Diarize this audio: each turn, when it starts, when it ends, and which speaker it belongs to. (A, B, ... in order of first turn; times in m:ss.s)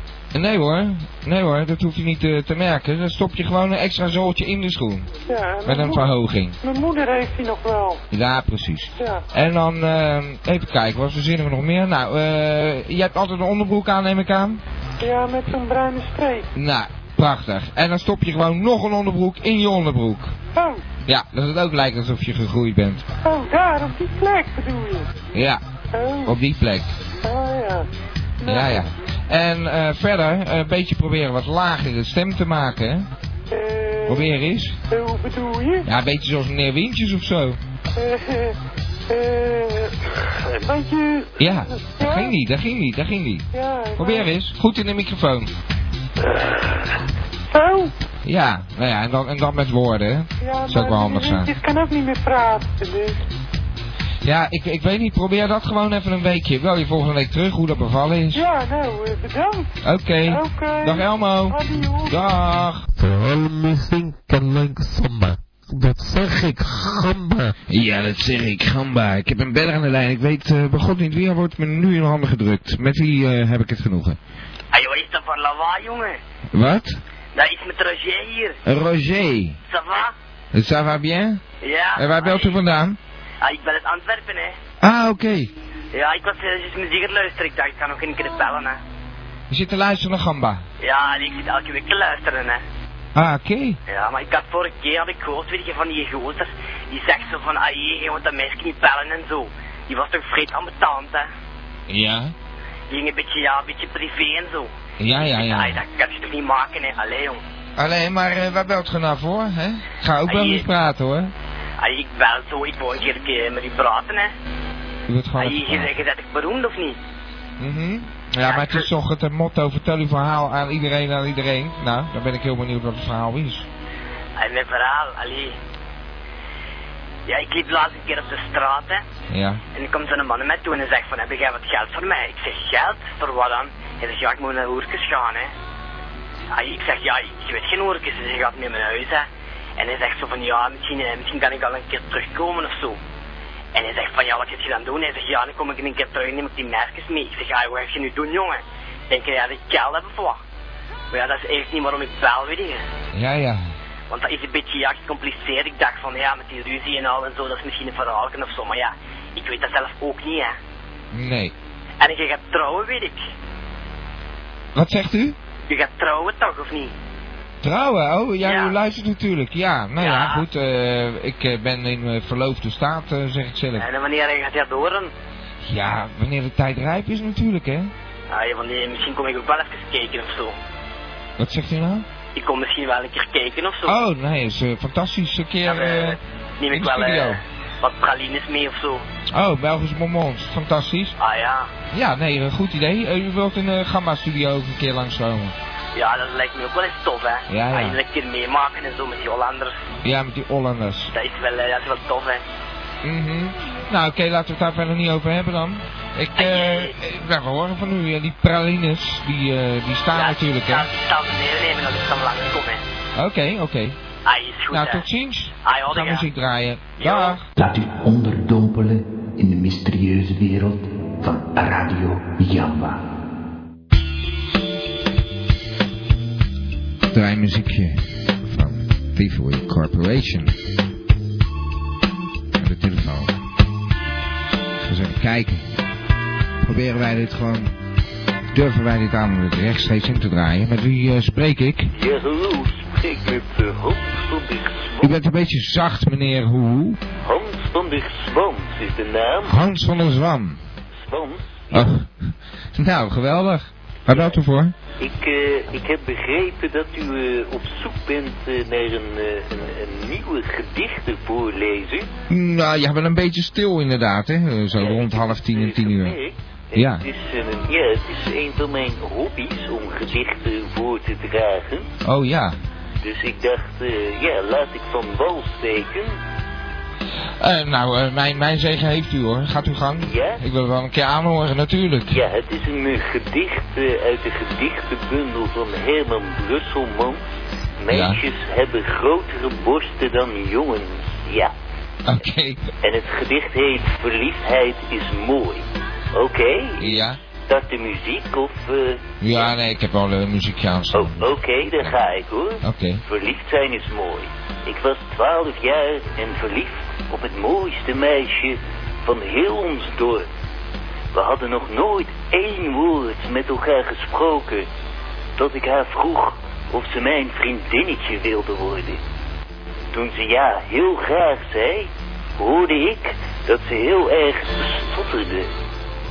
0:00.3-0:05.1 A
0:05.3-0:08.0 B
0:05.6-0:06.6 A
0:08.1-0:14.6 A
0:09.0-0:09.2 B
0:15.0-0:16.5 B
0:16.6-0:20.3 A
0:20.6-0:20.8 B
0:21.1-0:23.0 A
0:23.2-0:25.1 B
0:25.3-0:25.6 A
0:25.9-0:26.4 B
0:26.2-0:26.9 A
0:27.2-0:27.9 B
0:28.4-0:28.8 B
0:28.4-0:33.1 A
0:33.5-0:35.9 B
0:34.1-0:34.8 A
0:35.8-0:37.6 A
0:38.0-0:38.6 B
0:39.1-0:42.3 B
0:41.4-0:43.4 A
0:43.5-0:44.3 B
0:44.0-0:45.5 A
0:47.5-0:47.9 B
0:48.2-0:51.6 A
0:50.4-0:53.2 B
0:54.2-0:58.4 A
0:58.3-0:59.7 B
0:59.8-1:02.9 A
1:00.3-1:02.3 B
1:03.0-1:07.5 C
1:07.7-1:14.2 A
1:14.7-1:16.2 D
1:16.5-1:17.0 A
1:17.4-1:18.6 D
1:18.7-1:19.6 A
1:19.7-1:20.1 D
1:20.5-1:21.4 A
1:21.6-1:22.6 D
1:22.0-1:23.0 A
1:23.4-1:24.5 D
1:24.8-1:25.5 A
1:25.9-1:28.8 D
1:29.5-1:30.6 A
1:30.8-1:32.6 D
1:33.2-1:33.8 A
1:33.9-1:41.3 D
1:41.9-1:42.3 A
1:42.9-1:47.4 D
1:45.0-1:45.8 A
1:47.8-1:51.3 A
1:50.2-1:50.7 D
1:51.8-1:54.3 D
1:55.1-1:55.9 A
1:55.4-1:57.0 D
1:57.6-2:03.7 A
1:58.4-1:58.9 D
2:04.4-2:05.5 D
2:07.3-2:09.0 D
2:09.3-2:09.6 A
2:09.8-2:15.5 D
2:16.5-2:19.2 D
2:19.8-2:23.0 D
2:23.7-2:30.4 D
2:31.1-2:32.8 D
2:33.2-2:33.6 A
2:34.1-2:40.5 D
2:41.1-2:41.5 A
2:42.0-2:43.2 D
2:44.8-2:45.4 A
2:45.7-2:46.9 D
2:47.6-2:53.9 A
2:48.4-2:48.8 D
2:50.0-2:50.4 D
2:53.8-2:55.1 D
2:55.6-2:57.9 A
2:58.3-3:00.5 D
3:01.4-3:02.1 A
3:02.4-3:04.0 D
3:03.8-3:06.2 A
3:05.6-3:09.0 D
3:06.7-3:07.4 A
3:09.3-3:11.2 A
3:11.2-3:11.7 D
3:11.9-3:15.6 A
3:16.0-3:19.8 D
3:17.5-3:18.0 A
3:20.0-3:21.1 A
3:21.1-3:22.4 D
3:23.0-3:30.9 A
3:26.4-3:26.9 D
3:30.1-3:32.8 D
3:33.2-3:34.0 A
3:34.2-3:35.1 D
3:34.7-3:37.5 A
3:35.6-3:36.3 D
3:37.0-3:37.4 D
3:37.6-3:43.0 E
3:47.1-3:50.6 A
3:52.6-3:53.4 A
3:54.8-3:55.7 A
3:56.6-3:57.7 A
3:58.5-4:01.9 A
4:01.9-4:05.2 F
4:05.0-4:07.0 A
4:07.2-4:09.6 F
4:09.5-4:10.6 A
4:11.0-4:11.9 F
4:11.7-4:14.8 A
4:14.1-4:14.4 F
4:15.0-4:22.1 F
4:22.3-4:26.2 A
4:24.8-4:31.9 F
4:26.8-4:27.0 A
4:32.0-4:32.6 A
4:33.0-4:36.2 F
4:37.4-4:42.2 A
4:40.0-4:40.4 F
4:42.1-4:47.2 F
4:47.8-4:51.5 F
4:47.9-4:48.2 A
4:52.1-4:52.6 A
4:52.8-4:59.5 F
4:56.8-4:57.2 A
4:59.2-5:01.9 A
5:00.9-5:10.3 F
5:02.6-5:03.0 A
5:11.1-5:14.7 F
5:15.4-5:19.0 F
5:19.9-5:25.5 F